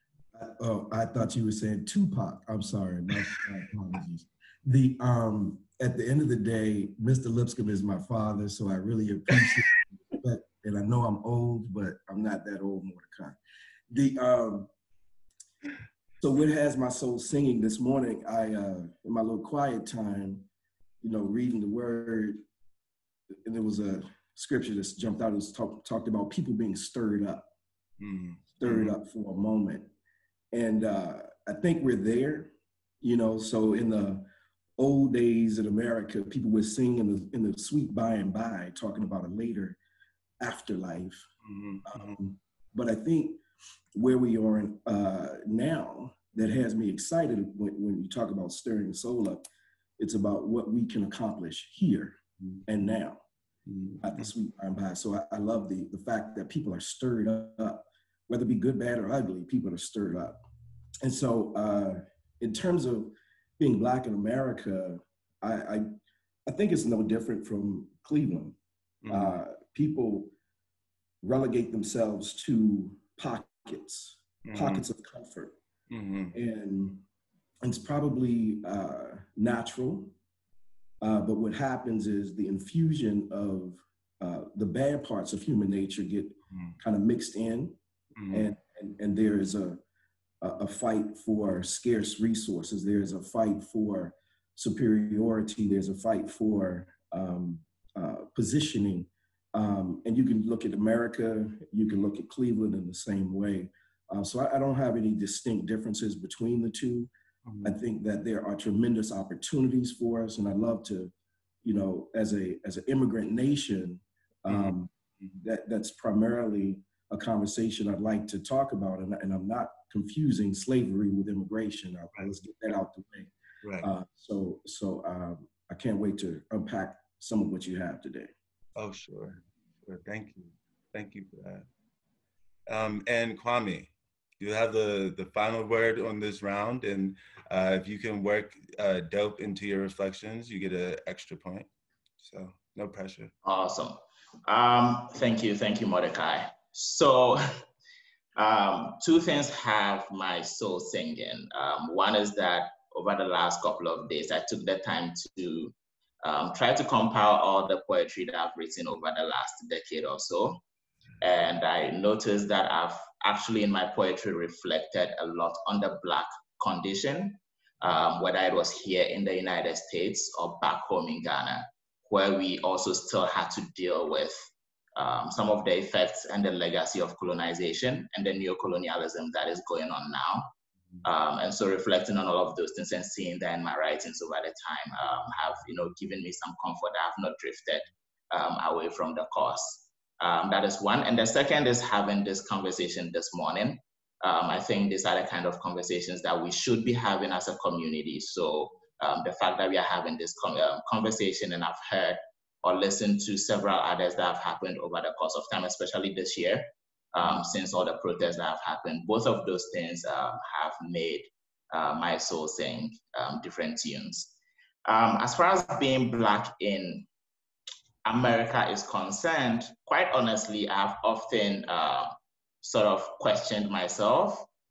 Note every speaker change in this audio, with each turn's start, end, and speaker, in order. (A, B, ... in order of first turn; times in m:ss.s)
0:00.4-0:13.4 A
0:13.9-0:14.7 A
0:16.2-0:20.5 A
0:21.0-0:22.4 A
0:23.5-0:27.5 A
0:28.0-0:28.9 B
0:28.6-0:29.9 A
0:30.5-0:32.5 A
0:33.0-0:34.2 A
0:34.8-0:39.8 A
0:40.4-0:41.3 A
0:41.4-0:42.2 B
0:41.9-0:43.4 A
0:44.0-0:49.4 A
0:50.0-0:53.2 A
0:53.7-0:54.3 B
0:54.0-1:00.4 A
1:01.0-1:05.9 A
1:06.5-1:08.6 A
1:09.0-1:09.4 B
1:09.1-1:10.3 A
1:11.2-1:15.6 A
1:14.5-1:14.8 B
1:15.9-1:16.4 B
1:16.3-1:17.0 A
1:17.6-1:20.1 A
1:21.0-1:27.8 A
1:28.2-1:28.5 B
1:28.3-1:29.8 A
1:30.4-1:47.1 A
1:47.5-1:47.8 B
1:47.6-2:03.3 A
1:54.5-1:55.4 B
2:03.6-2:03.9 B
2:03.8-2:08.3 A
2:08.8-2:11.7 B
2:12.7-2:21.7 B
2:22.2-2:23.3 B
2:23.4-2:27.4 C
2:28.4-2:40.6 C
2:41.2-3:34.3 C
3:34.9-3:37.1 C
3:38.0-3:44.5 C